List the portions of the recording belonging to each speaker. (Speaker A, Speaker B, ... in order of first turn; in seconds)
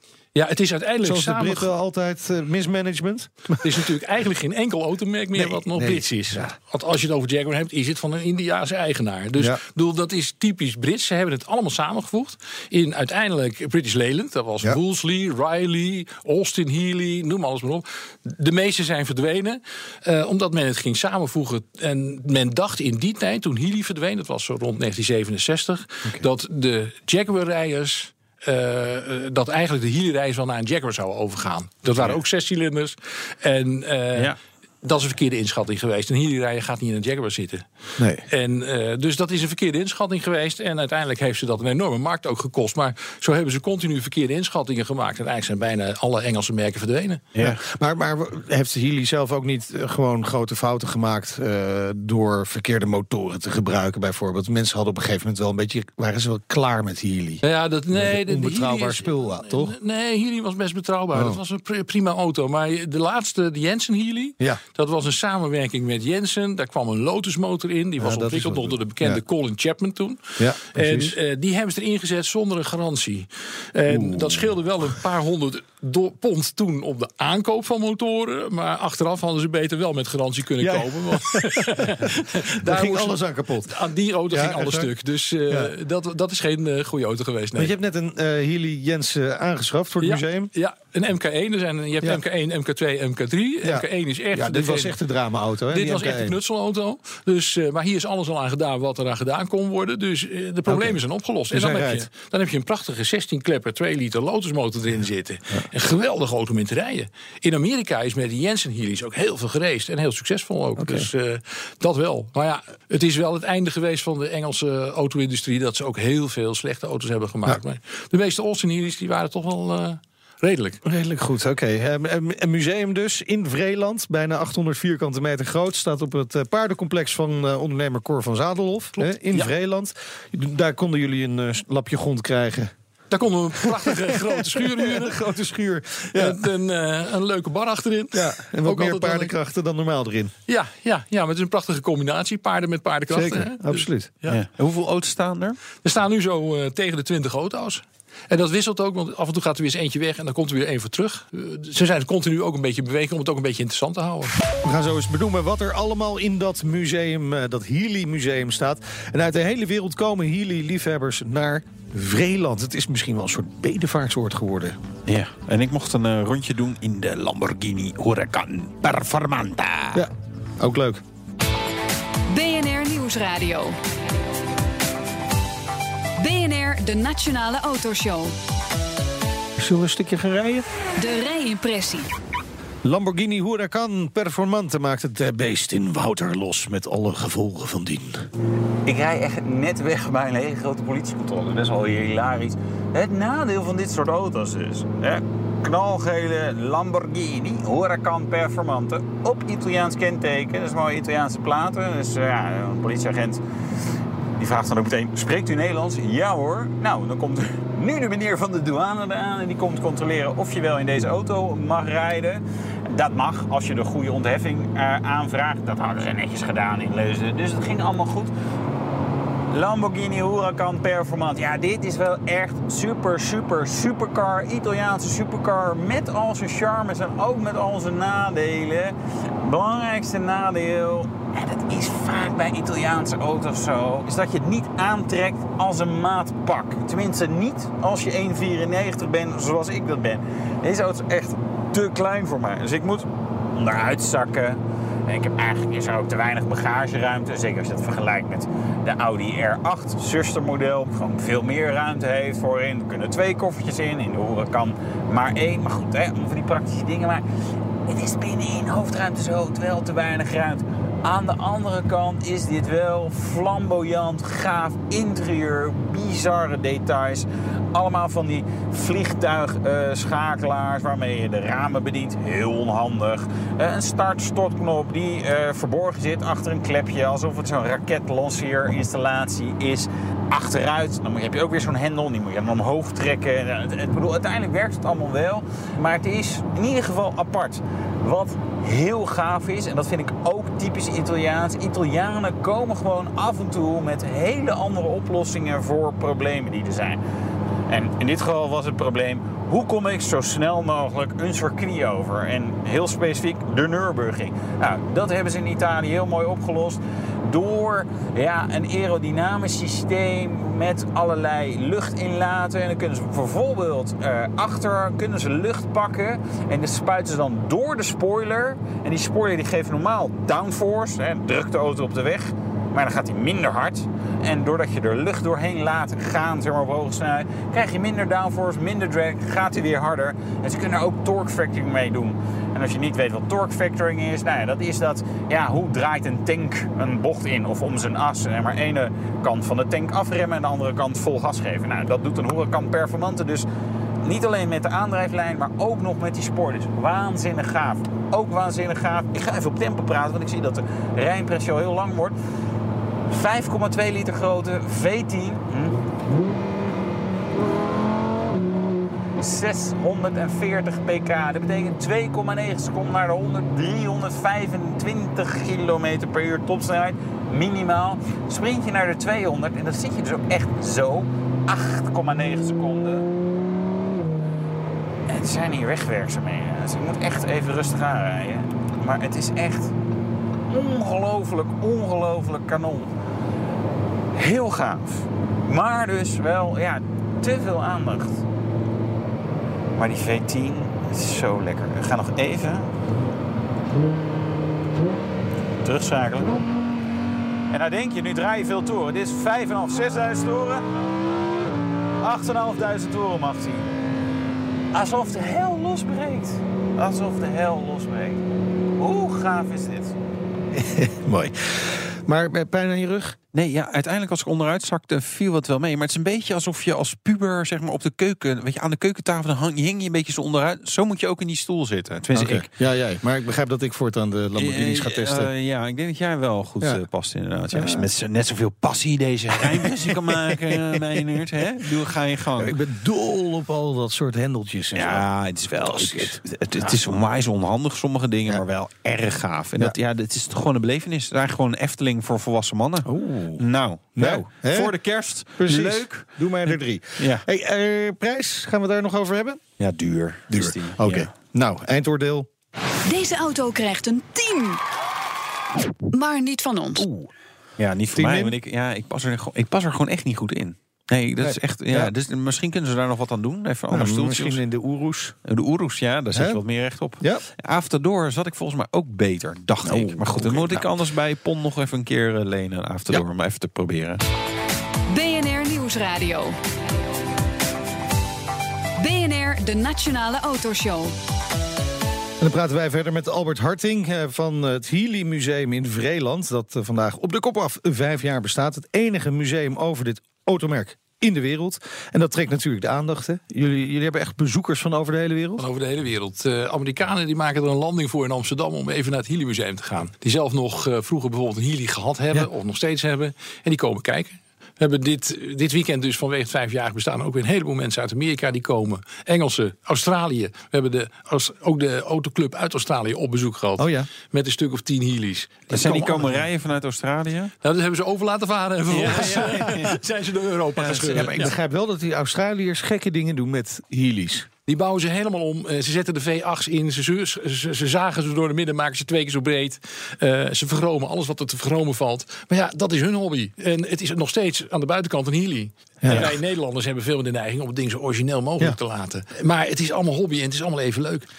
Speaker A: 0.3-1.7, 3.6-37.7, 38.3-47.2, 57.4-87.7, 90.0-95.0, 95.7-120.8, 129.0-129.5, 133.1-135.3, 136.1-139.3, 140.5-144.4, 145.8-154.3, 495.4-516.2, 517.4-521.2, 524.5-541.1
Speaker B: 1.0-3.8, 5.3-6.5, 9.4-9.6, 38.0-38.2, 47.4-59.8, 61.1-61.4, 68.0-69.2, 70.4-71.2, 73.9-74.4, 80.6-81.7, 82.6-83.8, 84.3-84.9, 87.5-90.5, 93.6-96.4, 100.7-101.0, 101.5-102.1, 110.8-111.1, 120.8-132.7, 133.6-136.4, 138.1-140.3, 143.1-144.1, 154.6-164.8, 169.9-171.0, 179.6-180.7, 182.8-188.3, 410.5-413.2, 422.1-425.3, 427.5-427.9, 429.4-430.8, 432.4-435.1, 435.6-436.6, 442.9-444.7, 445.4-449.4, 450.3-452.3, 456.8-457.1, 457.9-458.4, 461.2-461.9, 463.7-465.2, 466.1-466.4, 469.6-470.7, 482.2-495.4, 513.6-513.9, 518.9-519.7, 520.8-524.3, 535.8-536.1
Speaker C: 47.4-47.6, 144.3-145.6, 165.1-170.0, 413.3-422.5, 424.4-432.6, 434.7-447.2, 449.6-451.1, 457.6-464.4, 465.2-474.0, 515.5-517.3, 518.7-519.8, 520.6-521.3, 535.9-536.2
Speaker D: 172.3-173.8, 176.2-178.3, 181.0-182.1, 452.9-454.6, 455.9-456.9, 474.9-476.4, 478.8-480.9
Speaker E: 188.8-203.4, 204.4-218.3, 219.5-257.2, 257.9-297.0, 297.7-343.5, 344.0-352.2, 353.1-355.8, 359.2-373.1, 375.1-379.7, 380.5-382.9, 384.2-388.2, 389.8-392.7, 395.6-396.4, 397.5-400.7, 402.0-403.7, 404.7-408.2, 408.8-409.9